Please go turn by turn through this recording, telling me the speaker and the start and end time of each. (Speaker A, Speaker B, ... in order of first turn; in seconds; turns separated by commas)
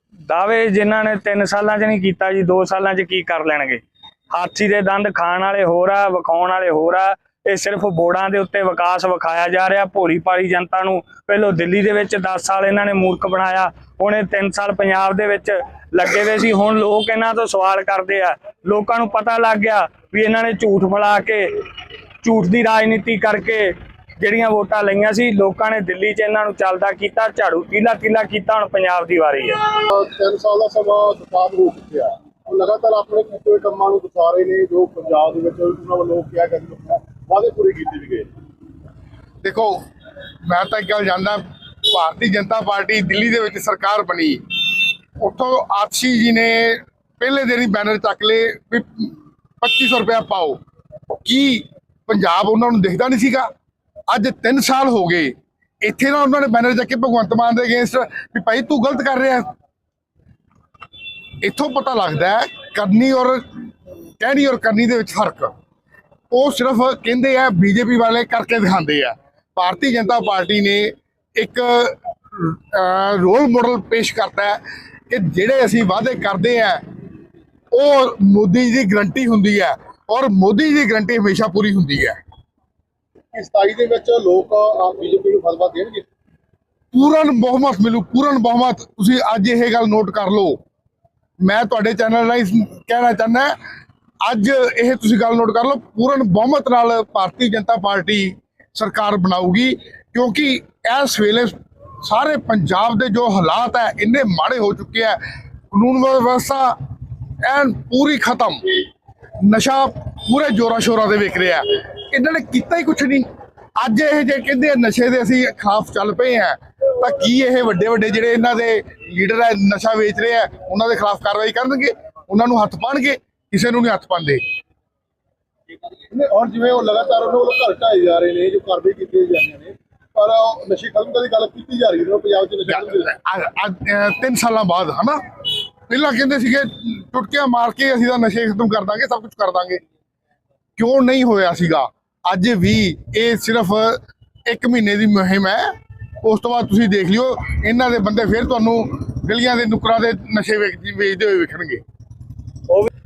Speaker A: 0.3-21.6, Speaker A: 22.2-29.6, Speaker B: 29.9-38.3, Speaker C: 39.4-39.8, Speaker C: 40.5-44.4, Speaker C: 45.2-50.6, Speaker C: 51.2-53.5, Speaker C: 54.1-59.5, Speaker C: 61.4-63.6, Speaker C: 64.2-65.5, Speaker C: 66.3-76.8, Speaker C: 77.7-82.2, Speaker B: 83.3-86.0, Speaker C: 86.9-90.6, Speaker C: 91.4-93.5, Speaker C: 94.2-105.2, Speaker C: 105.7-106.8, Speaker C: 107.4-108.8, Speaker C: 109.4-124.4, Speaker B: 126.1-133.1, Speaker C: 132.7-139.8, Speaker C: 140.8-151.8